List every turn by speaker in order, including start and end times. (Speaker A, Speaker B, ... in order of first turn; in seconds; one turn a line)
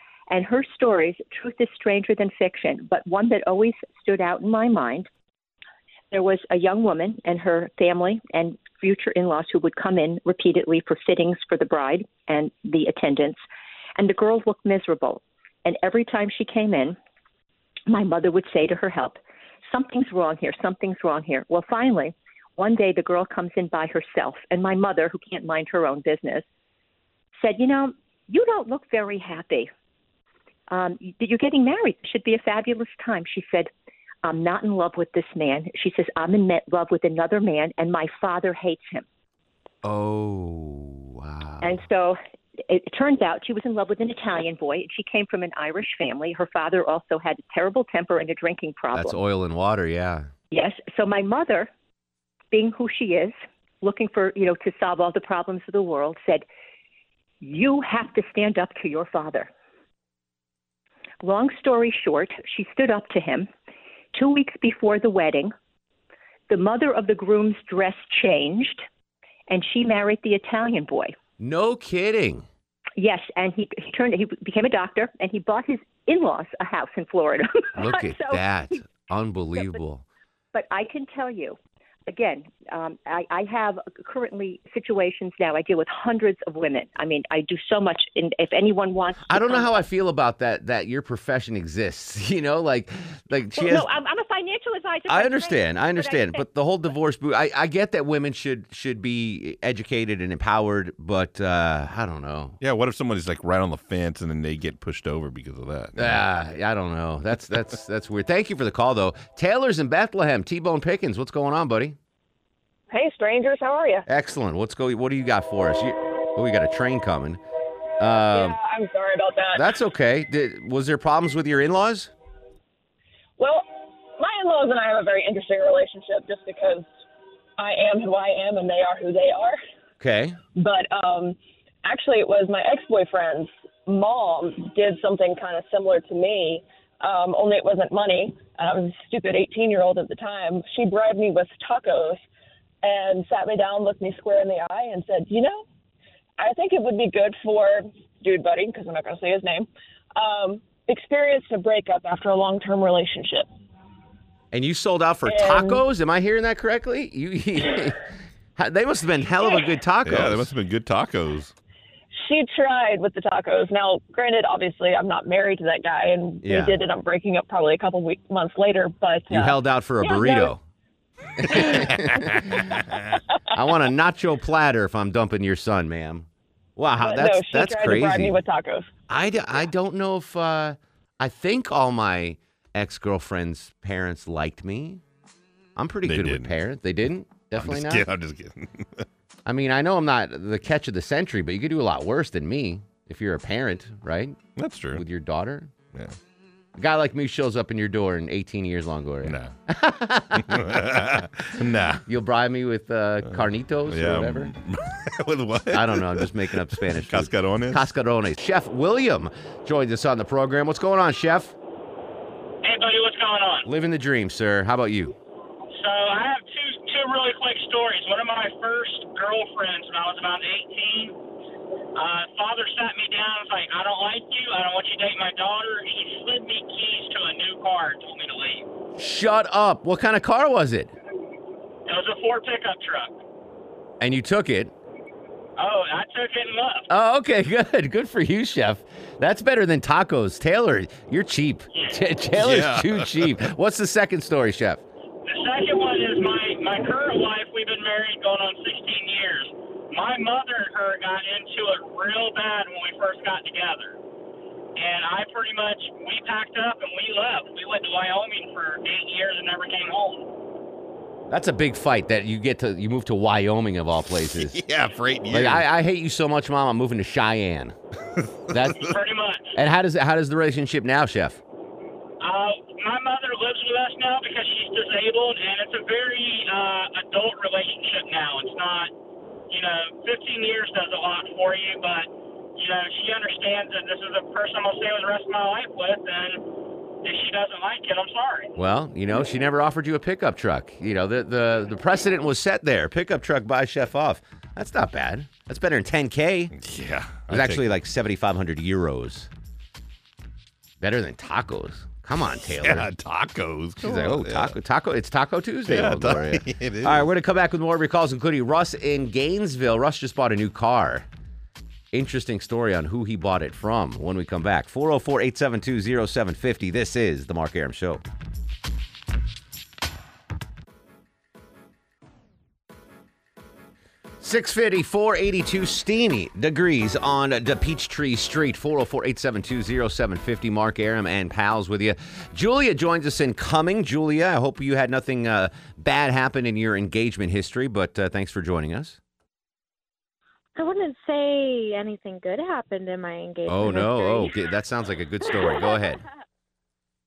Speaker A: 0.3-5.1
Speaker A: 6.1-13.4
Speaker A: 14.0-17.0
Speaker A: 17.9-26.4
Speaker A: 27.4-29.7
Speaker A: 30.7-33.7
Speaker A: 34.2-39.0
Speaker B: 39.8-41.8
Speaker A: 41.6-49.2
Speaker B: 48.9-50.3
Speaker A: 50.5-51.7
Speaker A: 52.5-56.4
Speaker A: 57.4-59.5
Speaker A: 61.2-63.5
Speaker A: 64.1-65.5
Speaker A: 66.5-68.8
Speaker A: 69.5-71.1
Speaker B: 71.4-72.5
Speaker A: 73.0-78.8
Speaker B: 77.8-80.0
Speaker A: 80.5-89.7
Speaker B: 89.3-93.9
Speaker A: 93.5-96.4
Speaker B: 95.1-102.6
Speaker C: 102.6-106.2
Speaker B: 106.0-112.0
Speaker D: 112.9-114.0
Speaker B: 114.1-117.4
Speaker B: 118.0-118.6
Speaker D: 118.3-119.7
Speaker B: 119.5-122.1
Speaker D: 123.4-126.9
Speaker D: 127.6-129.6
Speaker B: 130.0-130.4
Speaker D: 130.5-142.2
Speaker D: 142.8-145.6
Speaker D: 146.4-153.5
Speaker B: 154.5-158.0
Speaker D: 155.2-155.8
Speaker B: 158.6-160.5
Speaker C: 160.0-161.5
Speaker D: 162.1-170.6
Speaker B: 166.4-166.8
Speaker B: 169.3-170.6
Speaker B: 171.4-172.6
Speaker C: 171.5-173.1
Speaker B: 173.5-178.4
Speaker D: 177.0-178.9
Speaker B: 179.1-185.0
Speaker B: 185.8-188.1
Speaker C: 186.1-186.5
Speaker C: 187.6-189.0
Speaker B: 189.4-194.4
Speaker C: 194.6-195.0
Speaker B: 194.9-195.7
Speaker B: 196.8-200.7
Speaker C: 199.2-199.5
Speaker C: 200.4-202.0
Speaker B: 202.1-204.5
Speaker C: 203.3-207.8
Speaker B: 205.7-211.5
Speaker E: 212.6-213.7
Speaker B: 213.7-215.1
Speaker E: 215.7-221.2
Speaker E: 221.9-228.7
Speaker B: 228.9-230.9
Speaker E: 231.8-233.2
Speaker B: 234.0-234.7
Speaker E: 235.6-236.9
Speaker B: 236.9-244.8
Speaker E: 241.7-242.1
Speaker C: 242.4-243.4
Speaker E: 245.2-254.0
Speaker E: 254.8-260.3
Speaker B: 261.3-264.6
Speaker C: 264.4-265.6
Speaker B: 265.3-267.8
Speaker B: 268.5-268.9
Speaker E: 268.8-269.5
Speaker B: 269.5-271.4
Speaker E: 272.2-278.9
Speaker E: 279.5-286.5
Speaker E: 287.0-288.5
Speaker B: 288.6-296.5
Speaker C: 296.5-297.6
Speaker B: 297.3-299.3
Speaker B: 300.8-302.9
Speaker C: 302.6-304.6
Speaker B: 303.8-311.1
Speaker C: 305.7-307.1
Speaker B: 311.9-318.0
Speaker B: 324.2-339.0
Speaker F: 340.6-344.4
Speaker B: 343.5-346.0
Speaker F: 345.2-345.9